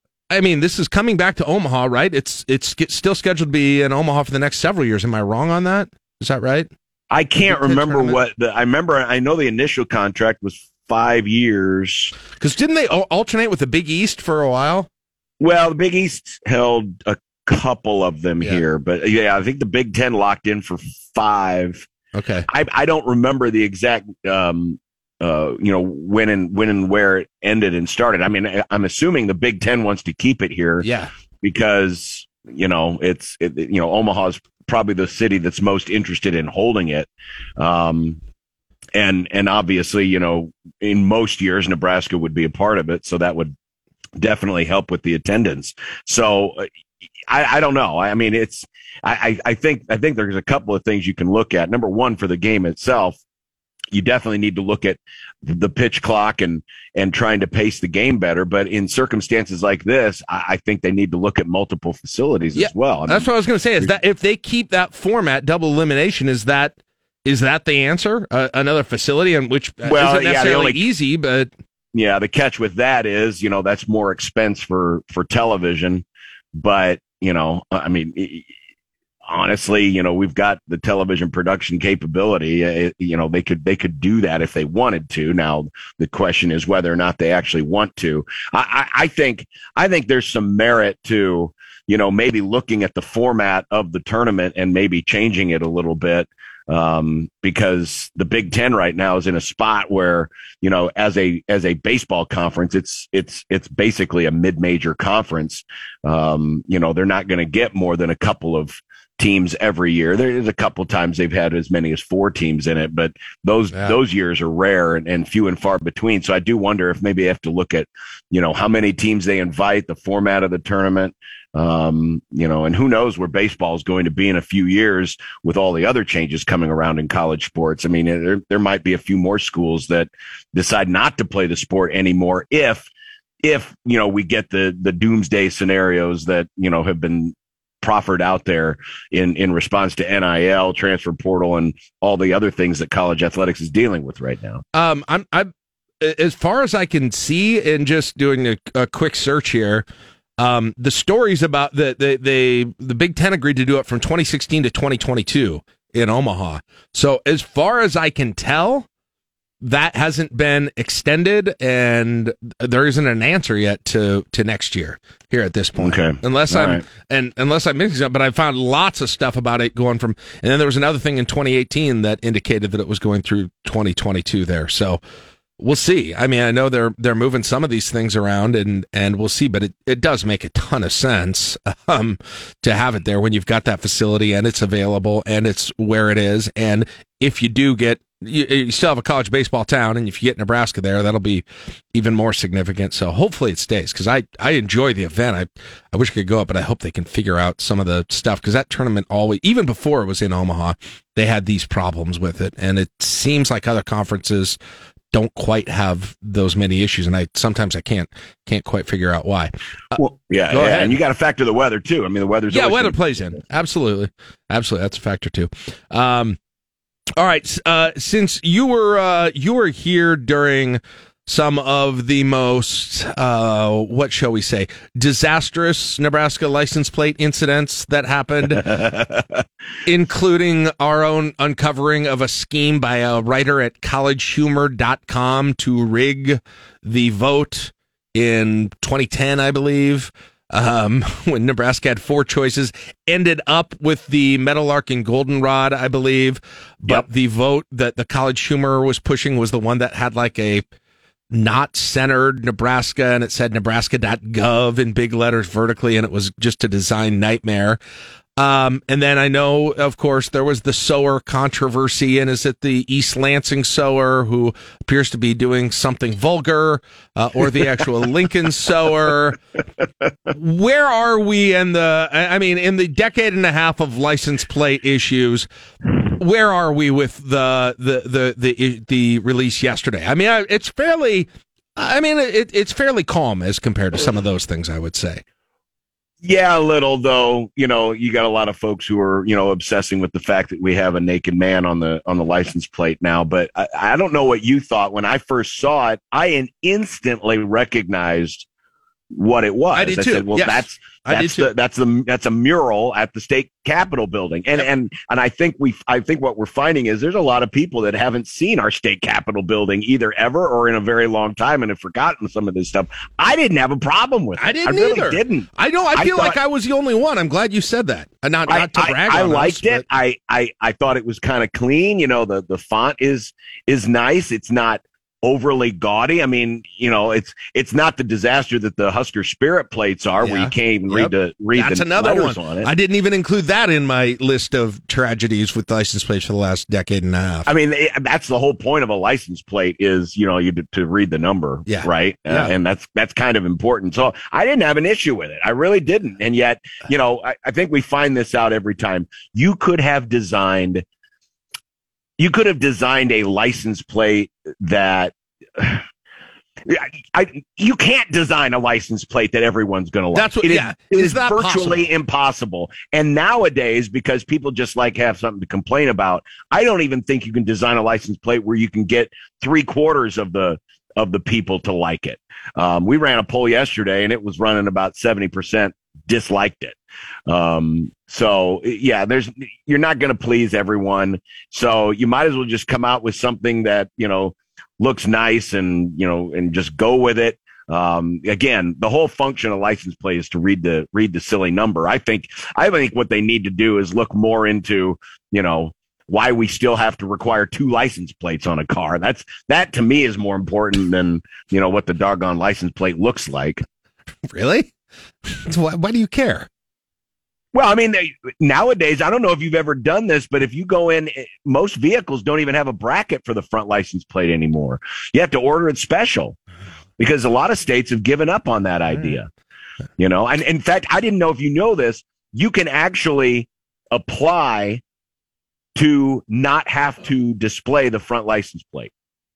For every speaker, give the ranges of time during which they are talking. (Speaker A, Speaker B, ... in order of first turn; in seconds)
Speaker A: 0.3-6.7, 7.4-8.2, 12.3-14.9, 22.1-22.4, 30.8-31.1, 62.5-71.5, 113.7-114.0, 144.7-149.9, 150.4-158.9, 159.6-175.0, 175.6-204.6, 205.1-211.0, 212.5-216.4, 217.2-228.7, 229.8-250.7, 251.3-257.8, 258.4-269.4, 270.3-275.5, 276.1-285.2, 299.7-301.5, 314.4-319.8, 330.2-337.5, 341.6-342.5, 360.1-361.9, 404.3-404.7, 405.2-406.5
Speaker B: 7.1-12.1, 15.4-21.9, 22.5-30.9, 31.4-38.2, 38.9-43.5, 44.2-46.7, 47.3-53.2, 53.9-63.9, 69.8-70.8, 71.9-76.0, 76.6-78.5, 79.3-132.9, 133.4-144.6, 165.8-166.8, 209.9-213.3, 228.5-229.4, 286.2-298.4, 299.1-316.4, 318.5-332.7, 337.4-350.8, 352.2-355.8, 356.7-376.8, 377.3-403.6, 407.5-416.4, 417.0-419.3, 420.0-424.8, 425.8-428.9